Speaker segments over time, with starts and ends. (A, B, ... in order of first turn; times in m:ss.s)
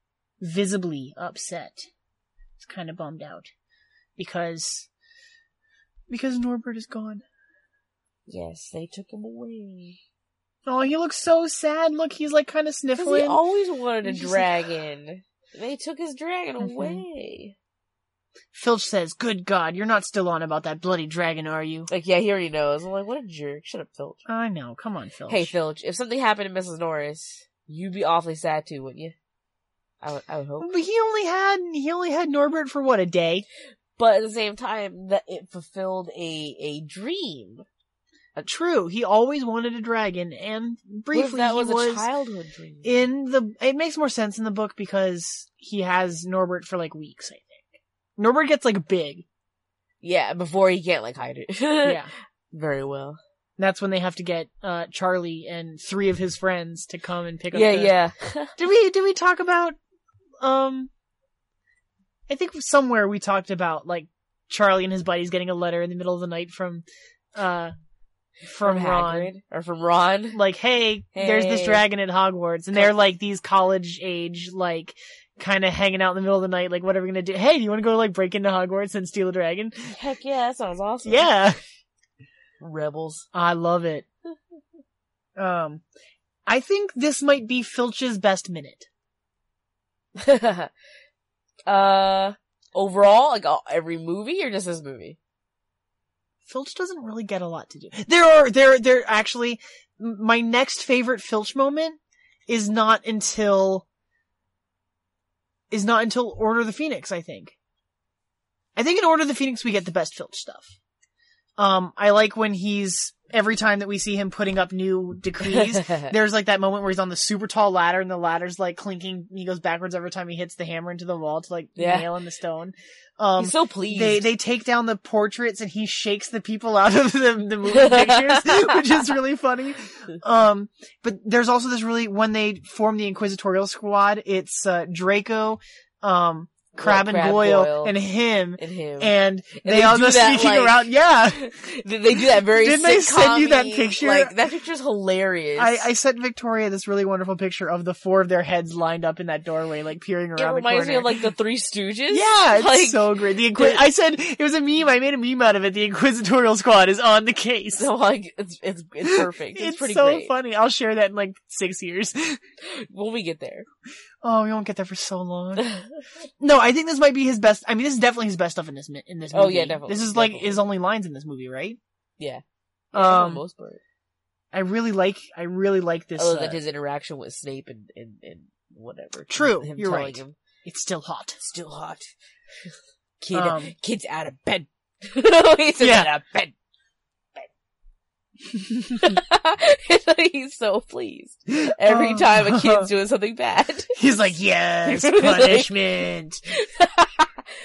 0:00.4-0:01.9 A
0:02.6-0:03.5 A
0:04.2-0:04.9 A
0:06.1-0:07.2 A
0:08.3-0:10.0 B
0:10.6-0:13.4 A
0:13.0-0:17.6 B
0:14.0-0:14.5 A
0:16.6-0:17.0 A
0:18.5-0:21.9 A
0:21.9-0:24.2 B
0:24.3-0:25.5 A
0:25.3-0:29.1 B
0:30.0-0:30.7 B
0:30.6-0:33.5 A
0:34.0-0:37.6 B
0:38.4-0:42.1 A
0:41.1-0:43.0 B
0:42.8-0:49.2 A
0:50.0-0:53.2 B
0:51.8-0:52.1 A
0:53.6-0:57.9 A
0:57.5-0:58.6 B
0:58.6-0:59.8 A
1:00.4-1:00.9 A
1:02.3-1:07.7 A
1:08.5-1:09.3 A
1:08.6-1:10.4 B
1:10.3-1:20.0 A
1:11.1-1:11.8 B
1:19.9-1:21.3 B
1:21.0-1:21.6 A
1:22.6-1:23.3 B
1:23.3-1:24.1 A
1:25.4-1:25.8 A
1:26.5-1:28.9 A
1:30.2-1:30.7 B
1:31.7-1:35.2 B
1:36.5-1:43.9 A
1:45.7-1:47.6 A
1:48.8-1:50.7 A
1:51.6-2:21.5 A
1:55.4-1:56.1 B
2:01.8-2:02.1 B
2:03.4-2:04.3 B
2:07.7-2:08.8 B
2:16.8-2:18.0 B
2:18.6-2:25.9 B
2:22.4-2:24.3 A
2:25.6-2:31.1 A
2:30.4-2:33.8 B
2:32.1-2:37.9 A
2:37.8-2:40.3 B
2:39.0-2:42.4 A
2:42.6-2:43.7 B
2:44.2-2:45.7 A
2:45.6-2:45.9 B
2:46.4-2:51.8 A
2:49.3-2:50.6 B
2:52.2-2:53.8 B
2:52.9-2:53.4 A
2:54.5-2:56.6 A
2:56.2-3:00.4 B
2:59.3-3:01.4 A
3:01.4-3:02.1 B
3:03.2-3:06.5 B
3:03.3-3:03.7 A
3:05.8-3:06.1 A
3:08.6-3:09.2 A
3:09.0-3:14.0 B
3:11.6-3:12.9 A
3:14.0-3:16.4 A
3:14.8-3:15.8 B
3:16.5-3:17.3 B